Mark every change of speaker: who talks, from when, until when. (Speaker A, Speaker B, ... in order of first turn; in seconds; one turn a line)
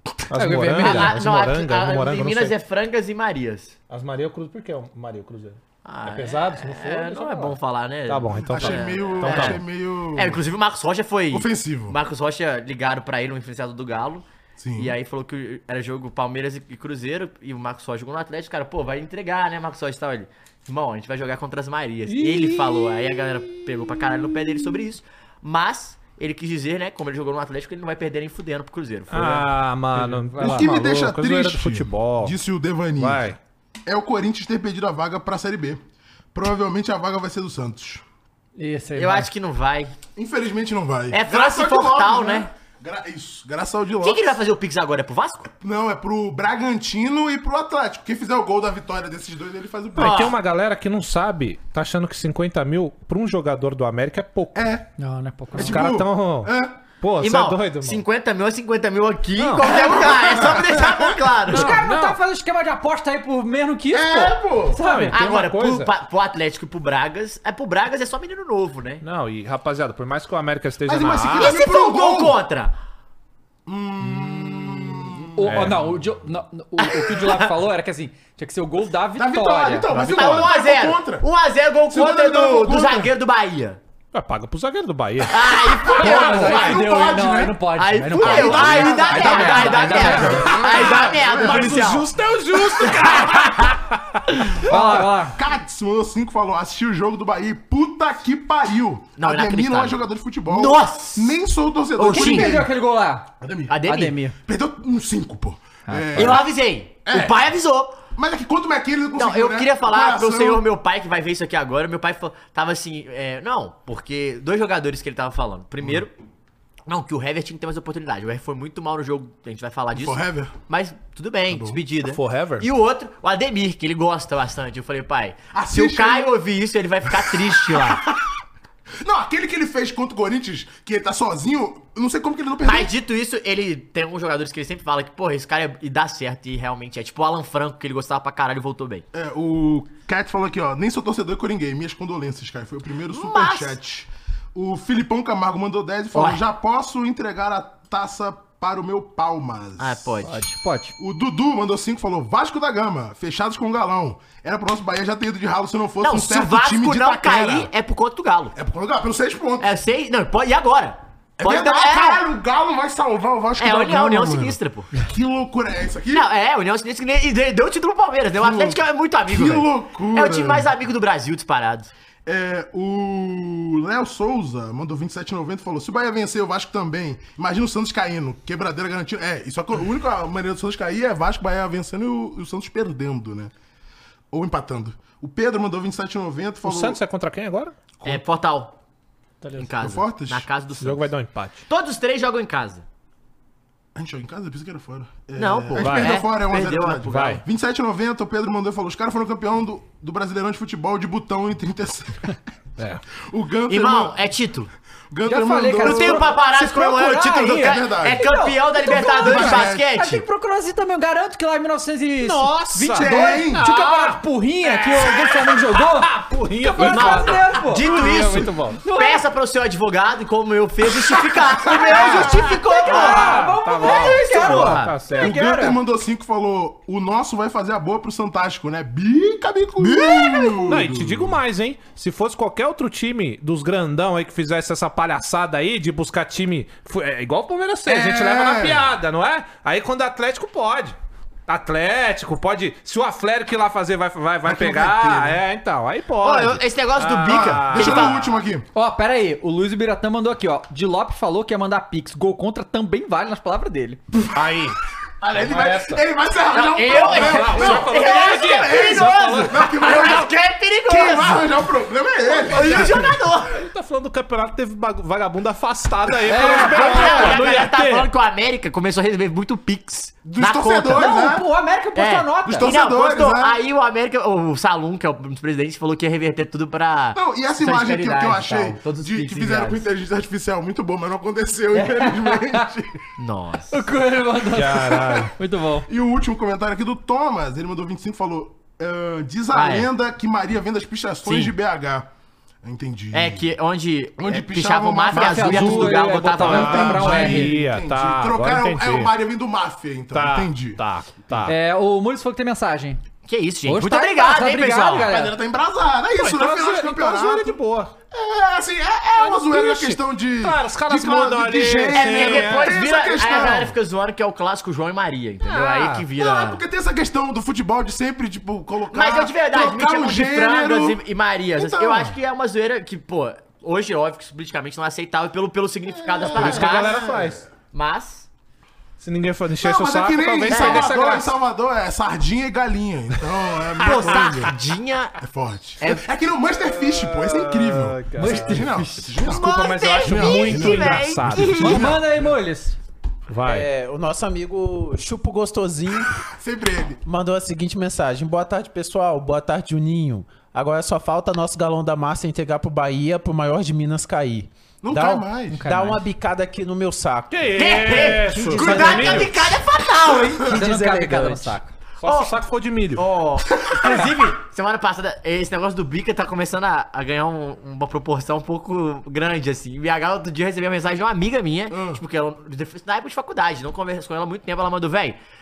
Speaker A: 0.3-2.5
Speaker B: 0.3-1.1
Speaker C: 0.8-3.7
Speaker A: 3.9-9.6
Speaker C: 5.8-9.6
Speaker D: 8.5-10.4
Speaker C: 10.1-14.2
Speaker D: 11.3-12.0
Speaker D: 14.6-14.9
Speaker C: 14.8-29.5
Speaker A: 22.1-24.6
Speaker A: 29.1-32.4
Speaker B: 29.9-30.7
Speaker D: 30.4-33.3
Speaker A: 33.0-33.4
Speaker D: 33.9-35.8
Speaker D: 36.3-38.0
Speaker B: 38.6-39.3
Speaker C: 39.0-39.9
Speaker D: 40.1-44.2
Speaker C: 41.1-42.5
Speaker C: 44.0-45.5
Speaker D: 45.6-50.3
Speaker A: 50.0-54.7
Speaker C: 50.0-50.3
Speaker D: 54.5-54.8
Speaker B: 55.0-55.8
Speaker D: 55.5-56.7
Speaker A: 55.5-58.0
Speaker C: 57.2-61.7
Speaker A: 59.4-60.4
Speaker D: 59.6-61.6
Speaker B: 61.5-65.2
Speaker A: 61.6-62.2
Speaker D: 63.9-64.8
Speaker A: 64.8-65.9
Speaker C: 65.1-69.0
Speaker A: 69.0-71.5
Speaker D: 70.8-72.4
Speaker C: 71.3-72.7
Speaker D: 73.7-75.7
Speaker B: 75.3-79.9
Speaker A: 75.4-75.9
Speaker C: 76.8-77.5
Speaker D: 79.2-81.3
Speaker A: 79.9-80.5
Speaker C: 79.9-83.8
Speaker D: 81.9-83.1
Speaker A: 84.1-85.4
Speaker C: 85.3-92.1
Speaker D: 85.5-87.5
Speaker B: 85.9-90.7
Speaker D: 88.1-92.1
Speaker A: 88.5-94.2
Speaker D: 92.8-93.5
Speaker C: 92.8-93.4
Speaker D: 94.5-102.7
Speaker B: 94.6-95.3
Speaker C: 99.2-101.4
Speaker C: 102.0-102.7
Speaker B: 102.1-103.3
Speaker D: 103.4-103.8
Speaker C: 103.7-104.2
Speaker B: 103.8-104.3
Speaker D: 104.4-107.4
Speaker B: 105.9-106.4
Speaker C: 106.2-108.0
Speaker D: 108.1-110.7
Speaker C: 109.2-116.1
Speaker C: 116.9-128.0
Speaker D: 119.9-120.6
Speaker D: 121.5-121.8
Speaker A: 122.0-122.7
Speaker D: 125.5-126.4
Speaker D: 127.1-128.2
Speaker D: 129.0-132.9
Speaker C: 132.6-139.1
Speaker D: 139.1-150.2
Speaker C: 143.1-143.8
Speaker C: 146.1-146.4
Speaker C: 149.8-150.4
Speaker B: 150.2-150.9
Speaker D: 151.0-157.7
Speaker C: 156.0-158.5
Speaker D: 158.5-159.8
Speaker C: 159.6-162.2
Speaker D: 161.4-166.3
Speaker C: 163.6-164.9
Speaker C: 166.1-171.9
Speaker D: 168.3-170.7
Speaker D: 172.2-183.5
Speaker D: 184.3-187.0
Speaker A: 186.6-187.7
Speaker C: 188.0-188.7
Speaker C: 189.6-191.1
Speaker D: 189.6-190.5
Speaker A: 190.8-191.7
Speaker C: 191.7-192.8
Speaker D: 193.9-202.4
Speaker C: 195.3-197.4
Speaker A: 195.8-196.3
Speaker A: 197.1-197.4
Speaker D: 203.2-204.2
Speaker C: 203.7-204.7
Speaker D: 205.1-206.4
Speaker B: 205.2-218.2
Speaker C: 205.8-210.2
Speaker D: 207.5-209.9
Speaker A: 212.2-218.8
Speaker D: 212.9-213.6
Speaker C: 216.8-224.9
Speaker D: 218.0-218.5
Speaker B: 218.8-219.2
Speaker B: 221.7-225.8
Speaker A: 221.8-225.4
Speaker D: 221.8-222.5
Speaker D: 225.1-231.4
Speaker B: 229.8-230.7
Speaker A: 230.7-240.9
Speaker D: 237.8-238.9
Speaker A: 241.5-248.4
Speaker C: 244.5-245.2
Speaker D: 244.6-245.3
Speaker C: 246.2-248.2
Speaker D: 247.2-248.7
Speaker B: 248.7-254.0
Speaker A: 254.3-254.8
Speaker D: 255.2-263.1
Speaker A: 255.3-256.0
Speaker C: 256.5-261.5
Speaker A: 257.0-259.6
Speaker C: 262.3-263.6
Speaker A: 262.5-267.7
Speaker B: 266.3-268.1
Speaker C: 266.3-271.1
Speaker D: 270.2-271.4
Speaker B: 270.9-272.7
Speaker C: 271.9-279.8
Speaker D: 272.4-273.6
Speaker D: 277.1-282.9
Speaker B: 281.7-282.7
Speaker C: 283.2-283.8
Speaker B: 283.7-285.9
Speaker A: 284.5-285.3
Speaker D: 285.9-292.1
Speaker C: 289.5-289.9
Speaker C: 291.2-291.5
Speaker D: 292.6-293.5
Speaker C: 293.1-297.1
Speaker D: 294.2-300.8
Speaker B: 295.1-297.5
Speaker A: 296.3-299.1
Speaker A: 300.1-301.5
Speaker B: 301.4-303.0
Speaker C: 303.2-305.1
Speaker B: 303.6-305.4
Speaker D: 304.9-307.6
Speaker A: 306.1-307.9
Speaker D: 308.1-313.8
Speaker A: 309.2-312.8
Speaker C: 311.9-316.6
Speaker A: 315.4-316.1
Speaker D: 316.1-321.0
Speaker C: 318.9-328.3
Speaker D: 321.5-322.2
Speaker D: 325.9-327.3
Speaker A: 326.3-327.4
Speaker A: 329.0-331.3
Speaker D: 329.6-334.5
Speaker C: 330.5-330.9
Speaker A: 333.8-334.5
Speaker C: 333.8-335.2
Speaker D: 335.2-342.3
Speaker A: 336.6-341.8
Speaker C: 338.2-341.9
Speaker B: 341.6-342.8
Speaker A: 343.3-343.7
Speaker E: 343.4-346.1
Speaker D: 346.2-347.0
Speaker E: 347.0-357.5
Speaker D: 354.8-355.6
Speaker B: 355.5-356.0
Speaker A: 357.3-359.4
Speaker C: 357.5-360.7
Speaker D: 358.3-359.3
Speaker B: 360.5-361.7
Speaker A: 362.0-363.1
Speaker C: 362.0-362.4
Speaker C: 362.9-375.2
Speaker D: 363.6-364.1
Speaker D: 371.7-372.0